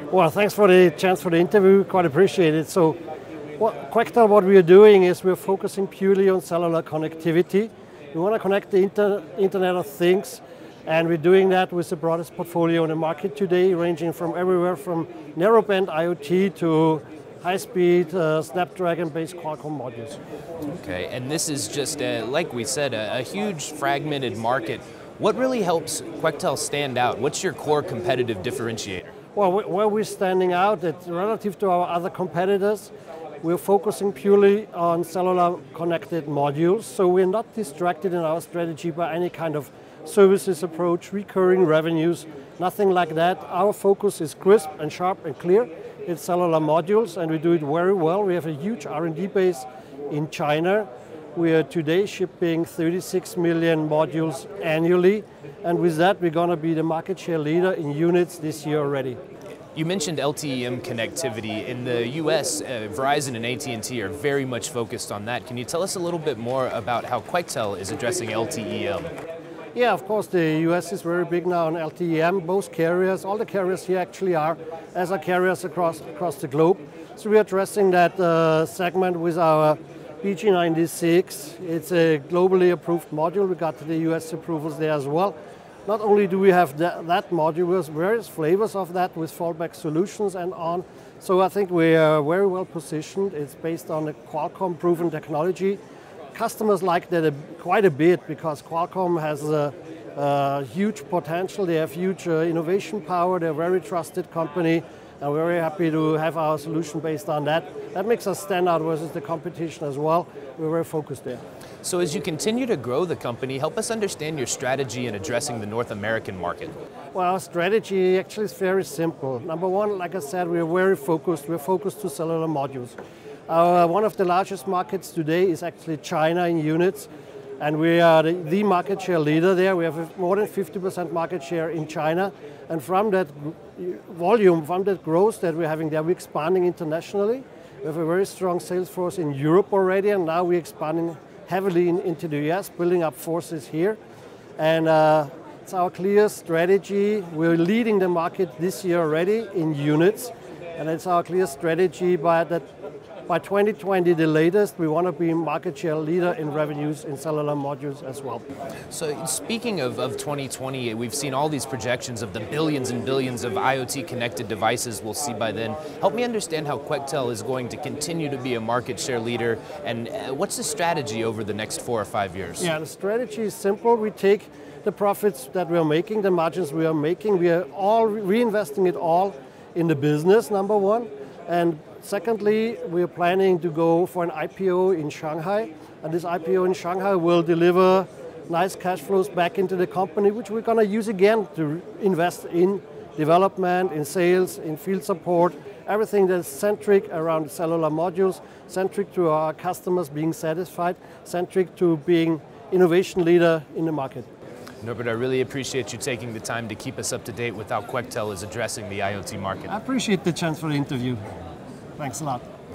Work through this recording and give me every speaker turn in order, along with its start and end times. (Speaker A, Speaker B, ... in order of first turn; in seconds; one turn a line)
Speaker A: 0.1-3.0
Speaker A: 3.6-20.2
Speaker B: 20.6-29.1
Speaker A: 29.4-59.2
Speaker B: 59.8-69.1
Speaker A: 69.7-85.3
Speaker A: 85.9-95.8
Speaker A: 96.3-111.4
Speaker B: 111.8-116.7
Speaker A: 117.1-123.0
Speaker A: 123.5-127.1
Speaker A: 127.6-144.0
Speaker A: 144.6-152.7
Speaker A: 153.3-158.4
Speaker B: 158.9-172.7
Speaker A: 172.6-204.3
Speaker B: 204.8-209.7
Speaker A: 209.7-211.2
Speaker A: 212.0-212.5